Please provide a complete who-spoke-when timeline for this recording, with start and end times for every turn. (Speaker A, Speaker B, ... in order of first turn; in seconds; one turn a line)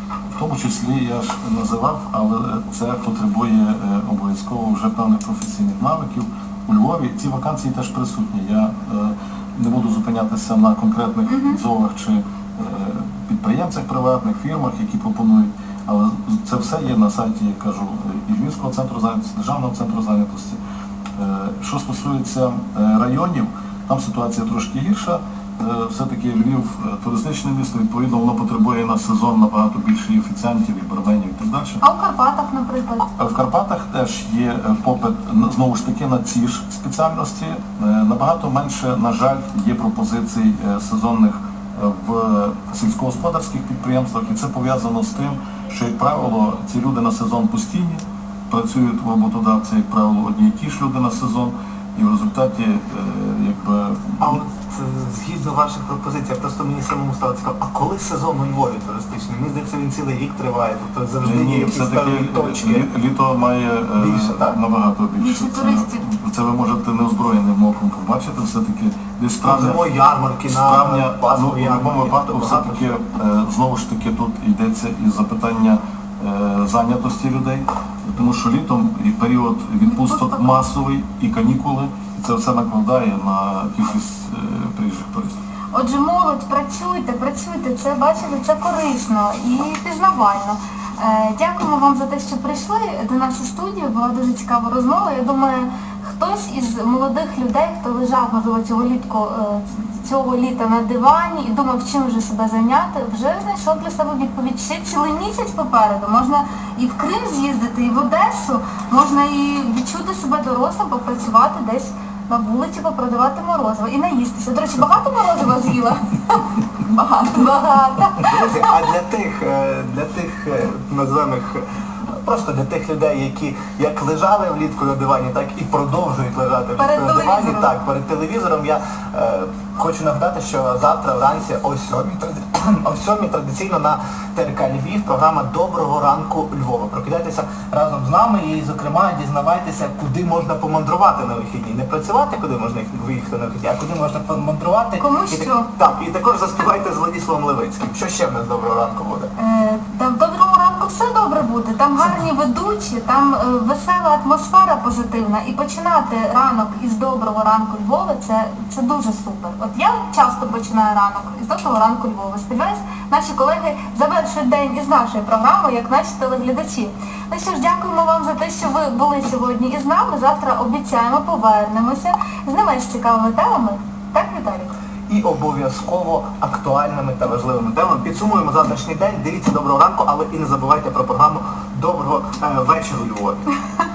Speaker A: 0.3-20.6
Speaker B: 11.3-11.6
Speaker A: 21.2-31.8
Speaker B: 31.8-33.1
Speaker A: 33.2-54.4
Speaker C: 54.2-62.9
Speaker A: 61.2-69.8
Speaker C: 64.0-64.6
Speaker B: 65.2-66.1
Speaker C: 69.4-73.0
Speaker A: 70.5-85.4
Speaker B: 79.9-80.6
Speaker B: 85.7-118.7
Speaker C: 118.2-149.3
Speaker B: 126.8-127.7
Speaker B: 145.0-145.7
Speaker B: 149.4-174.7
Speaker C: 175.1-183.5